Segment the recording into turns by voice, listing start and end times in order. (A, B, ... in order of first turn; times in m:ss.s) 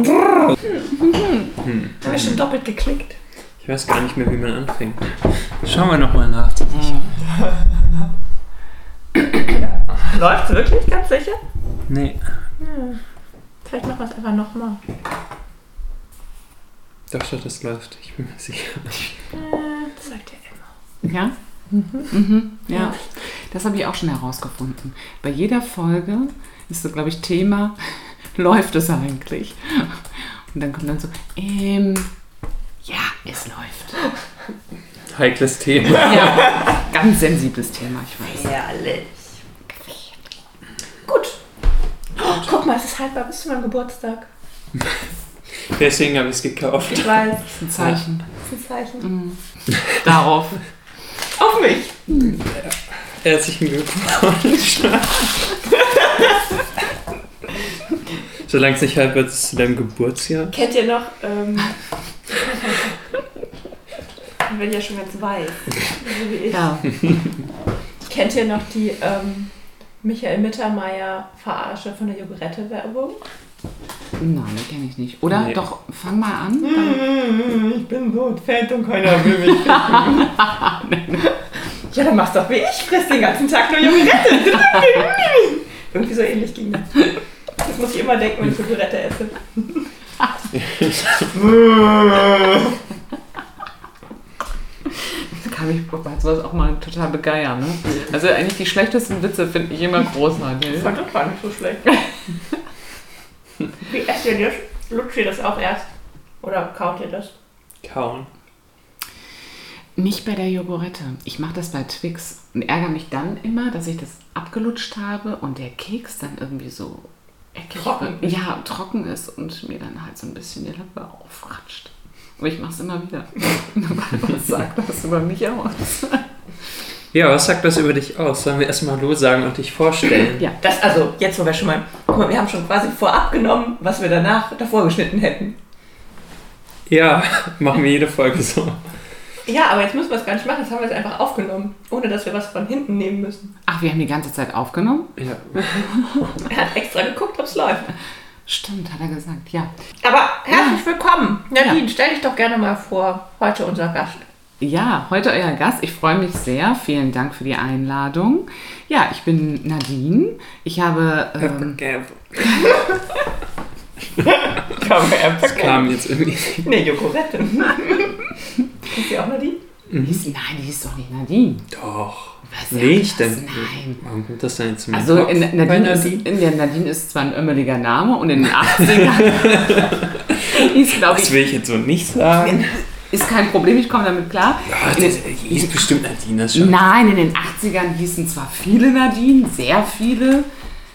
0:00.9-0:01.5 A
0:01.6-0:02.4 B
0:02.0-0:03.2 C
0:03.6-0:07.0 B
0:06.7-0:07.1 A
0:09.5-0:11.4 C
0:11.9-0:12.2 B
0:12.6-0:13.0 C
0:13.6-0:14.8 C
0:17.1-0:19.3 B
0:19.3-0:20.6 C
0:21.0-0:27.8 A
0:28.3-0:30.0 A
0:30.5-0:32.1 A
0:32.8-0:34.1 A
0:35.1-0:36.5 B
0:36.0-0:38.5 A
0:38.3-0:39.4 C
0:39.8-0:40.1 A
0:41.0-0:41.4 C
0:42.2-0:44.3 C
0:45.6-0:48.0 B
0:46.8-0:47.6 C
0:47.6-0:48.2 A
0:48.3-0:49.1 C
0:49.0-0:50.6 A
0:51.4-0:52.2 C
0:52.3-0:55.6 B
0:55.8-0:56.3 C
0:58.4-1:00.5 B
1:00.5-1:02.9 C
1:04.4-1:06.7 C
1:06.5-1:06.9 A
1:08.0-1:09.5 C
1:10.0-1:13.2 C
1:14.2-1:17.0 A
1:15.3-1:15.6 B
1:16.6-1:20.4 C
1:19.7-1:21.3 A
1:21.9-1:29.8 C
1:30.5-1:31.3 B
1:31.3-1:32.8 C
1:35.3-1:40.9 A
1:40.7-1:41.9 C
1:43.8-1:45.8 C
1:46.4-1:47.3 C
1:47.8-1:48.3 B
1:50.0-2:06.2 A
1:57.7-1:58.4 C
2:07.1-2:10.4 B
2:10.6-2:15.6 C
2:16.9-2:18.9 B
2:19.4-2:23.5 C
2:23.7-2:26.4 A
2:25.2-2:25.9 B
2:26.4-2:27.9 C
2:28.5-2:29.7 A
2:30.0-2:34.2 C
2:30.5-2:30.8 A
2:34.6-2:41.8 A
2:41.8-2:43.0 C
2:42.5-2:42.7 A
2:44.2-2:46.0 C
2:45.4-2:46.7 B
2:46.6-2:48.1 C
2:48.8-2:49.6 C
2:49.9-2:50.2 B
2:50.0-2:51.7 A
2:51.7-2:56.4 B
2:52.4-2:54.0 A
2:54.9-3:01.4 A
2:58.5-3:02.8 B
3:03.1-3:05.9 A
3:04.7-3:06.8 B
3:06.5-3:10.5 A